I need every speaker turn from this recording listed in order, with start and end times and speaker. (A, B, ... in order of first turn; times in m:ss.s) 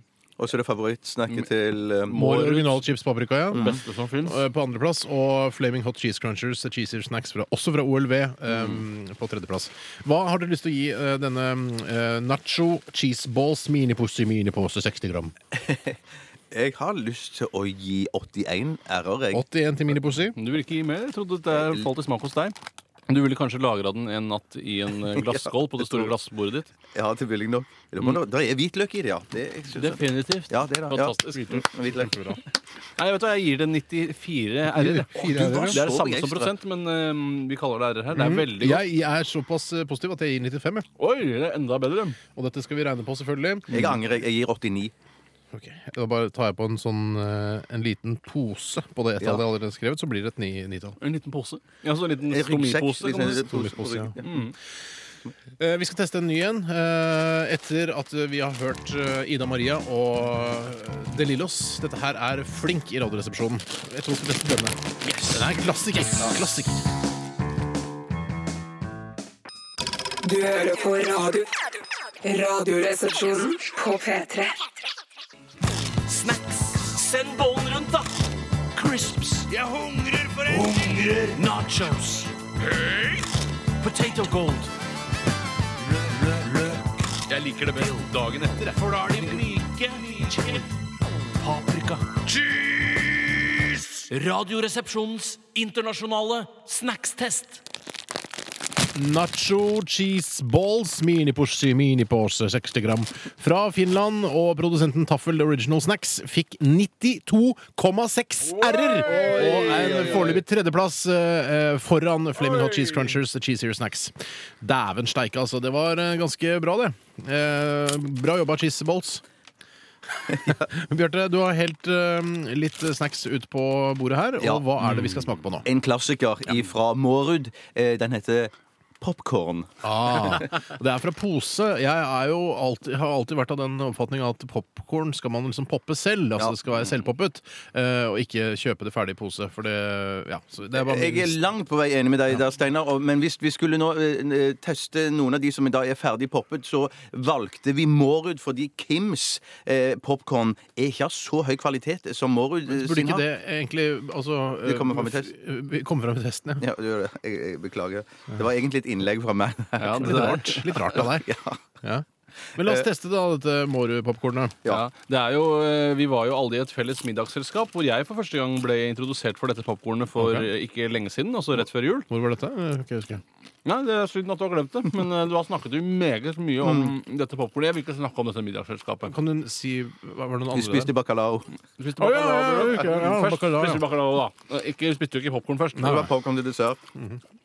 0:00.4-0:02.3 A
0:02.1-0:02.8 B
0:02.1-0:15.3 C
0:03.5-0:03.8 A
0:03.6-0:04.4 B
0:08.5-0:08.8 B
0:15.5-0:16.0 A
0:16.5-0:19.4 A
0:19.3-0:20.4 C
0:20.3-0:22.6 B
0:21.5-0:21.9 A
0:23.1-0:26.7 B
0:25.2-0:26.1 A
0:26.9-0:32.4 A
0:29.8-0:31.7 B
0:31.9-0:32.4 C
0:33.0-0:38.8 B
0:34.6-0:35.8 C
0:35.2-0:36.5 A
0:38.1-0:40.8 C
0:41.0-0:42.2 B
0:42.3-0:44.0 C
0:43.7-0:44.9 A
0:45.5-0:51.0 C
0:49.2-0:49.4 A
0:51.0-0:53.5 B
0:52.2-0:54.4 A
0:53.3-0:54.1 C
0:54.2-0:54.5 B
0:55.6-1:06.8 C
1:10.2-1:11.7 D
1:12.2-1:14.6 D
1:16.1-1:18.1 E
1:18.8-1:19.5 E
1:20.4-1:22.3 E
1:23.8-1:24.6 E
1:23.8-1:24.7 B
1:27.3-1:28.8 B
1:27.6-1:28.1 E
1:28.6-1:30.6 E
1:31.4-1:32.0 B
1:31.5-1:33.3 E
1:34.1-1:37.6 E
1:38.9-1:59.2 C
1:49.0-1:50.4 B
2:00.4-2:05.6 C
2:04.4-2:10.5 A
2:09.8-2:21.4 C
2:20.8-2:33.2 A
2:32.7-2:36.6 C
2:34.6-2:35.3 A
2:36.6-2:41.6 A
2:39.8-2:40.7 B
2:39.9-2:41.3 C
2:42.6-2:44.6 C
2:42.6-2:42.8 A
2:44.7-2:52.1 B
2:50.2-2:50.5 C
2:52.1-2:53.2 C
2:53.6-2:59.2 B
2:56.6-2:56.9 A
2:59.0-3:00.9 C
3:00.5-3:01.5 A
3:01.8-3:06.1 B
3:02.0-3:03.9 C
3:05.8-3:06.1 C
3:05.8-3:06.8 A